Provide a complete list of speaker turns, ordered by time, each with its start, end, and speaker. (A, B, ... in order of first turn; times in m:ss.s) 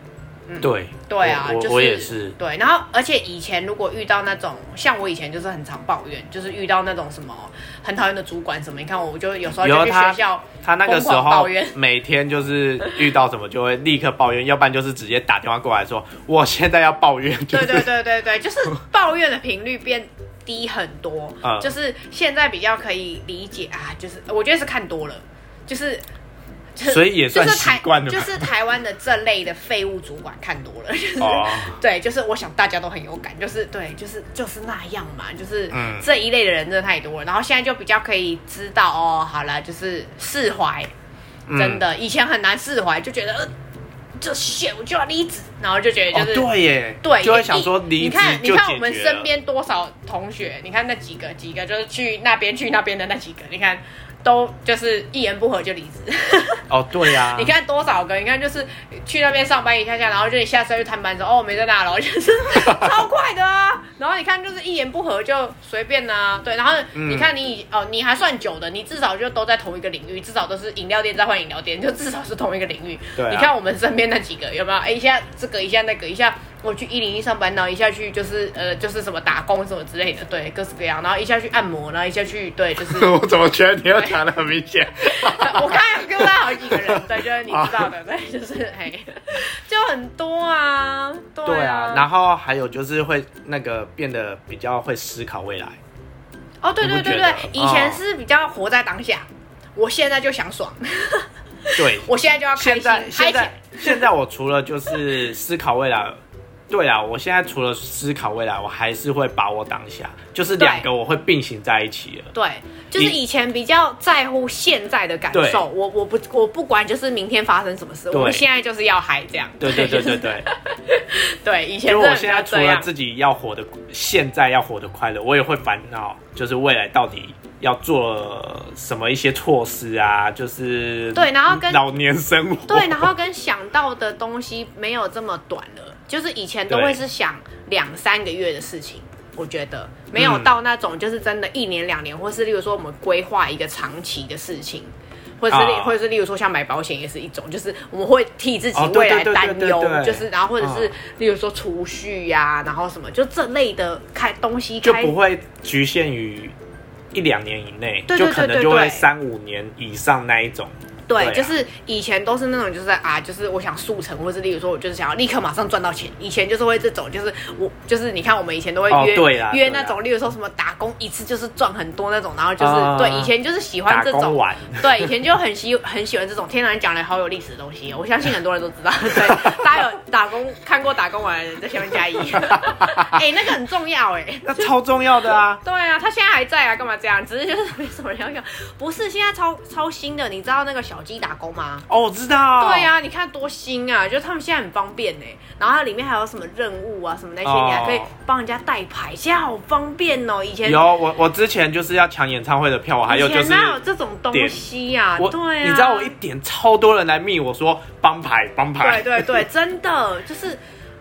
0:00.5-0:11.8 A
0:00.6-0:02.4 B
0:09.6-0:17.9 B
0:17.5-0:26.0 A
0:21.4-0:21.7 B
0:26.8-0:40.9 A
0:26.9-0:28.5 B
0:31.2-0:31.8 B
0:35.7-0:36.1 B
0:41.5-0:41.8 B
0:41.6-0:43.5 A
0:44.2-0:46.5 A
0:46.1-0:49.3 B
0:47.0-1:23.2 A
0:56.7-0:57.5 B
1:02.6-1:02.9 B
1:07.0-1:07.3 B
1:13.2-1:13.5 B
1:22.8-1:27.9 B
1:25.1-1:32.1 A
1:31.4-1:35.8 B
1:36.6-1:44.1 A
1:36.8-1:38.0 B
1:41.8-1:52.3 B
1:50.6-1:50.9 A
1:52.3-2:02.9 A
1:55.3-1:55.7 B
1:58.1-1:58.4 B
1:59.6-2:00.5 B
2:01.9-2:13.1 B
2:11.2-2:11.8 A
2:12.7-2:35.2 A
2:16.7-2:17.0 B
2:20.2-2:20.6 B
2:25.5-2:26.0 B
2:28.7-2:30.9 B
2:34.8-2:36.6 B
2:37.1-2:41.5 B
2:38.1-2:39.1 A
2:41.1-3:04.7 A
2:48.9-2:49.9 B
2:52.6-2:53.3 B
2:53.9-2:55.1 B
2:59.2-2:59.8 B
3:02.4-3:03.2 B
3:04.4-3:05.6 B
3:05.3-3:11.9 A
3:11.9-3:12.9 B
3:12.6-3:20.9 A
3:17.4-3:18.1 B
3:20.6-3:23.8 B
3:23.1-3:26.2 A
3:24.3-3:24.6 B
3:25.2-3:29.4 B
3:28.8-3:30.6 A